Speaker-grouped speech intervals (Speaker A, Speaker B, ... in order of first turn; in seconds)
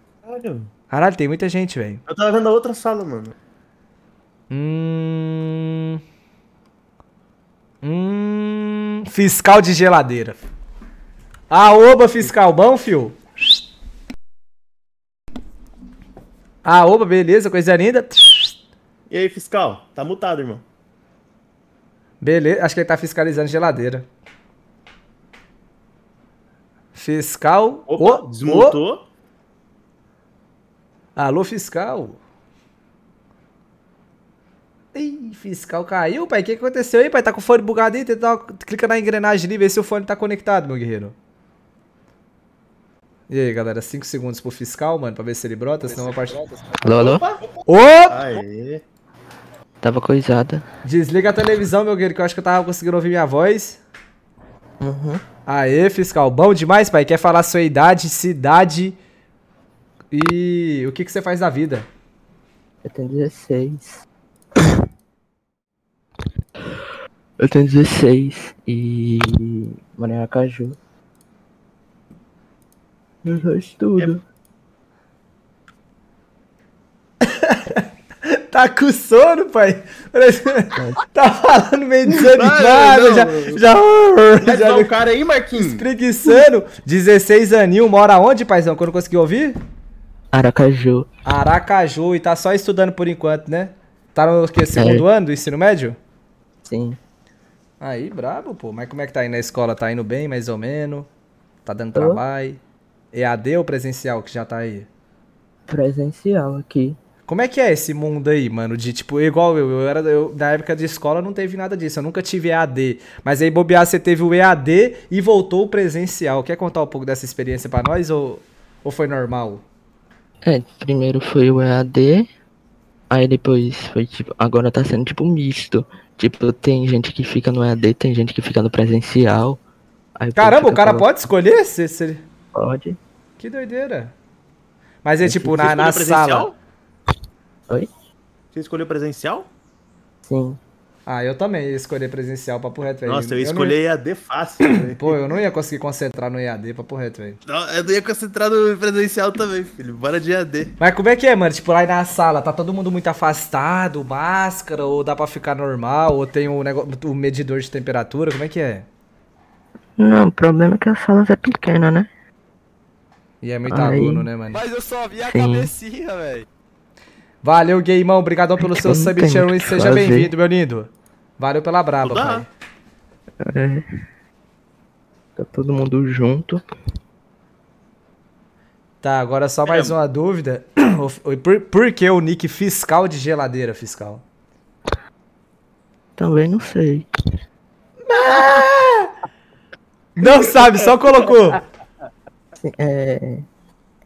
Speaker A: 0.3-0.7, 2.1-3.3, 19.1-20.6, 27.9-29.0, 46.8-47.4, 48.1-48.8, 82.1-83.6, 84.4-85.8, 135.6-136.6, 138.5-139.5, 143.0-145.2, 147.4-150.7, 172.0-172.4, 179.7-179.9
Speaker B: 0.9-2.0, 4.5-6.0, 7.8-10.5, 11.5-13.6, 16.6-18.6, 22.2-24.1, 26.9-28.8, 31.1-32.2, 34.9-41.1, 43.3-46.4, 47.7-48.4, 50.8-53.8, 55.5-59.0, 60.1-61.9, 77.2-84.9, 85.6-89.6, 91.2-96.0, 97.8-101.1, 101.6-102.6, 103.1-104.9, 107.2-119.6, 130.3-132.2, 133.4-134.1, 135.0-136.5, 141.1-143.8, 144.8-147.4, 150.8-158.9, 163.4-164.6, 167.4-172.5, 179.0-184.2, 188.1-189.1, 190.2-191.6
Speaker C: 46.8-47.2, 49.8-50.6, 54.8-55.2, 62.8-64.0, 67.4-70.8, 73.2-74.2, 90.3-91.1, 94.7-95.0, 96.6-97.0, 101.9-102.2, 105.7-107.0, 120.4-122.3, 123.1-129.6, 130.2-131.2, 132.5-133.0, 135.2-135.6, 140.2-140.6, 160.0-162.1, 163.7-164.3, 165.2-165.7, 168.6-170.3, 173.4-173.8, 175.4-176.6, 186.2-187.1, 192.6-193.4
Speaker D: 164.5-166.4